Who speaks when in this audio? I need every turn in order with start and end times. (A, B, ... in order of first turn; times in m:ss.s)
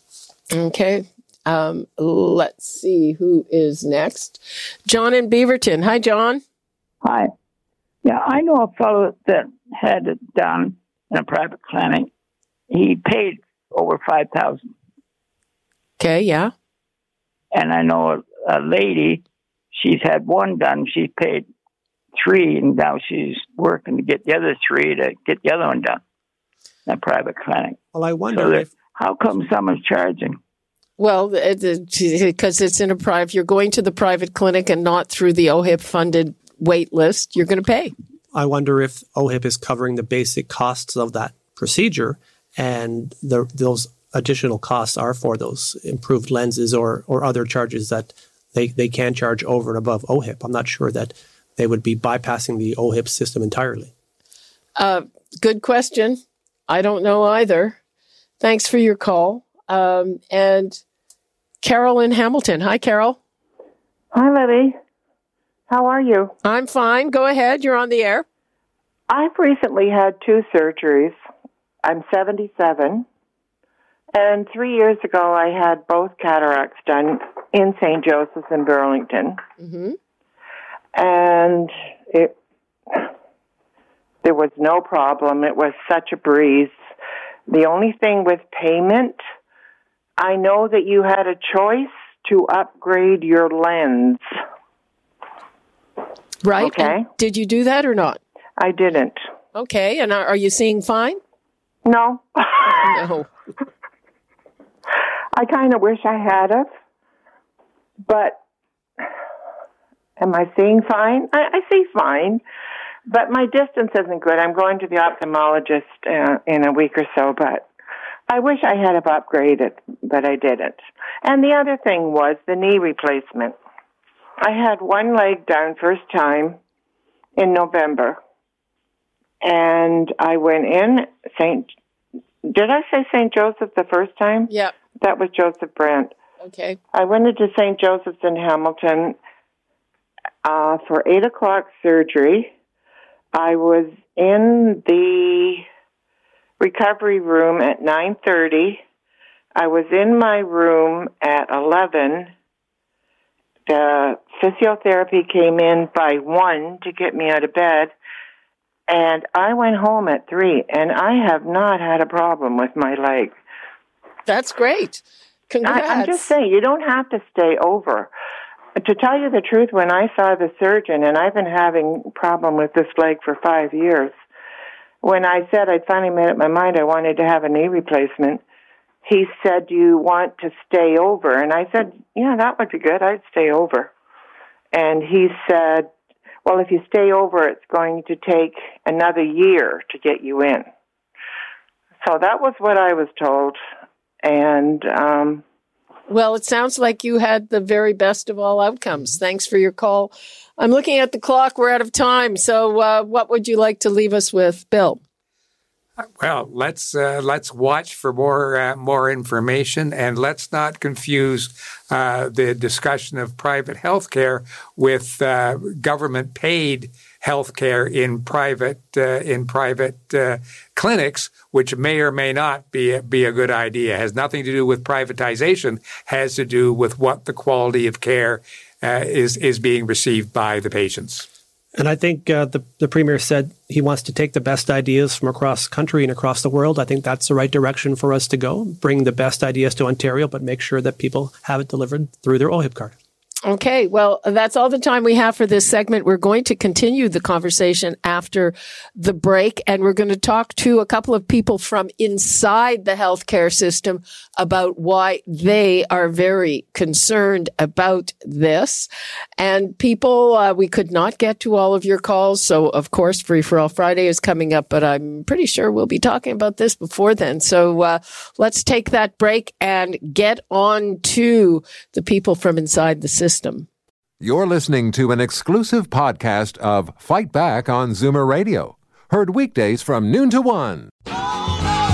0:00.5-0:06.4 A
0:07.0-0:07.3 B
0:08.0-0:12.1 B
0:12.7-0:14.6 B
0:16.0-0:16.5 A
0:17.5-0:19.2 B
0:19.7-0:21.5 B
0:22.2-0:26.0 B
0:26.9-0:30.4 B
0:27.9-0:28.7 C
0:31.0-0:37.9 A
0:38.3-0:53.9 C
0:54.8-0:57.8 A
0:58.4-1:00.8 A
1:01.6-1:03.2 A
1:04.1-1:04.8 D
1:05.7-1:06.3 D
1:06.4-1:08.2 A
1:09.1-1:11.2 D
1:11.8-1:13.0 D
1:14.1-1:19.4 D
1:19.6-1:20.0 A
1:20.9-1:22.3 D
1:24.2-1:26.8 D
1:27.5-1:29.2 D
1:30.2-1:34.2 D
1:36.4-1:38.2 A
1:36.6-1:37.1 D
1:38.6-1:39.2 D
1:39.5-1:41.2 A
1:41.8-1:42.8 D
1:42.8-1:43.3 A
1:45.3-1:46.7 D
1:48.0-1:48.4 D
1:50.2-1:52.4 D
1:53.1-1:57.7 D
1:58.3-2:03.6 D
2:04.4-2:06.6 D
2:07.4-2:08.2 D
2:09.4-2:11.7 D
2:12.4-2:16.2 D
2:16.4-2:16.8 A
2:16.9-2:19.2 D
2:20.4-2:22.5 D
2:23.3-2:25.6 D
2:26.6-2:28.8 D
2:29.5-2:32.3 D
2:33.7-2:37.9 D
2:38.9-2:43.3 D
2:44.3-2:46.3 A
2:45.6-2:48.1 D
2:48.8-2:54.2 D
2:55.0-2:58.4 D
2:59.0-3:03.9 D
3:04.7-3:05.9 D
3:06.4-3:10.7 D
3:12.0-3:13.6 D
3:14.2-3:15.4 D
3:16.1-3:25.0 A
3:26.2-3:51.2 E
3:51.8-4:02.9 C
4:03.4-4:33.7 A
4:34.2-4:40.9 F